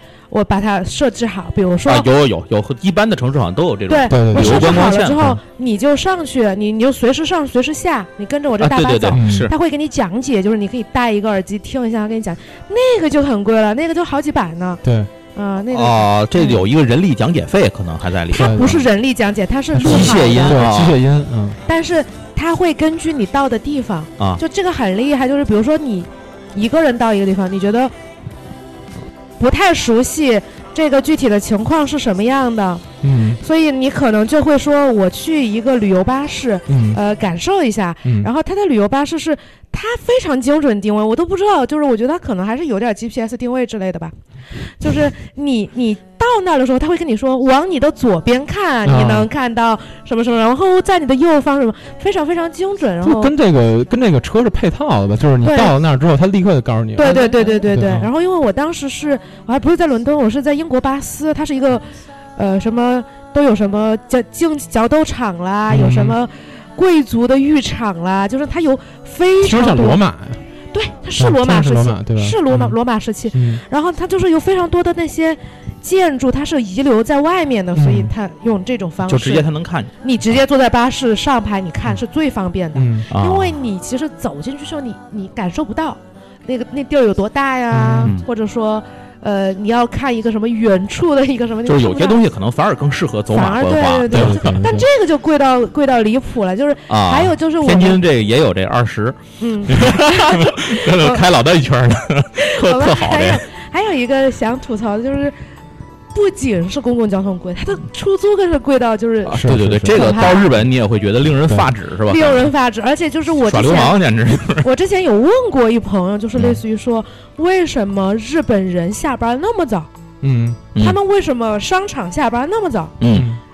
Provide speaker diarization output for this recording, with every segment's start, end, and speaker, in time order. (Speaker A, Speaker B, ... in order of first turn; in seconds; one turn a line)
Speaker A: 0.3-2.1
Speaker B: 1.9-5.4
Speaker A: 3.9-14.8
Speaker C: 4.1-4.9
Speaker B: 8.6-9.5
Speaker C: 9.1-9.5
Speaker C: 14.8-15.1
Speaker A: 15.3-16.7
Speaker B: 15.7-18.7
Speaker A: 18.3-20.6
Speaker C: 18.3-18.9
Speaker C: 19.7-21.6
Speaker B: 19.8-21.0
Speaker A: 21.7-27.9
Speaker A: 29.4-32.9
Speaker C: 33.0-33.4
Speaker A: 33.4-44.1
Speaker C: 36.7-37.0
Speaker A: 44.7-53.3
Speaker C: 48.8-49.3
Speaker C: 53.0-58.1
Speaker A: 55.4-55.7
Speaker A: 57.0-61.9
Speaker A: 62.4-70.0
Speaker C: 65.7-66.2
Speaker C: 69.4-70.4
Speaker A: 70.7-79.5
Speaker C: 71.2-72.8
Speaker C: 73.3-73.6
Speaker C: 77.8-78.1
Speaker B: 79.1-79.9
Speaker A: 80.0-92.2
Speaker C: 82.8-83.1
Speaker B: 83.1-83.6
Speaker C: 87.7-88.1
Speaker B: 91.7-94.6
Speaker A: 93.3-98.0
Speaker C: 94.1-94.9
Speaker B: 96.9-103.4
Speaker A: 99.4-101.2
Speaker A: 102.4-105.4
Speaker A: 106.1-110.5
Speaker C: 109.3-110.1
Speaker B: 109.3-112.5
Speaker A: 112.1-119.9
Speaker B: 113.4-114.7
Speaker C: 120.2-120.6
Speaker A: 120.8-123.0
Speaker B: 123.0-123.3
Speaker C: 123.1-123.4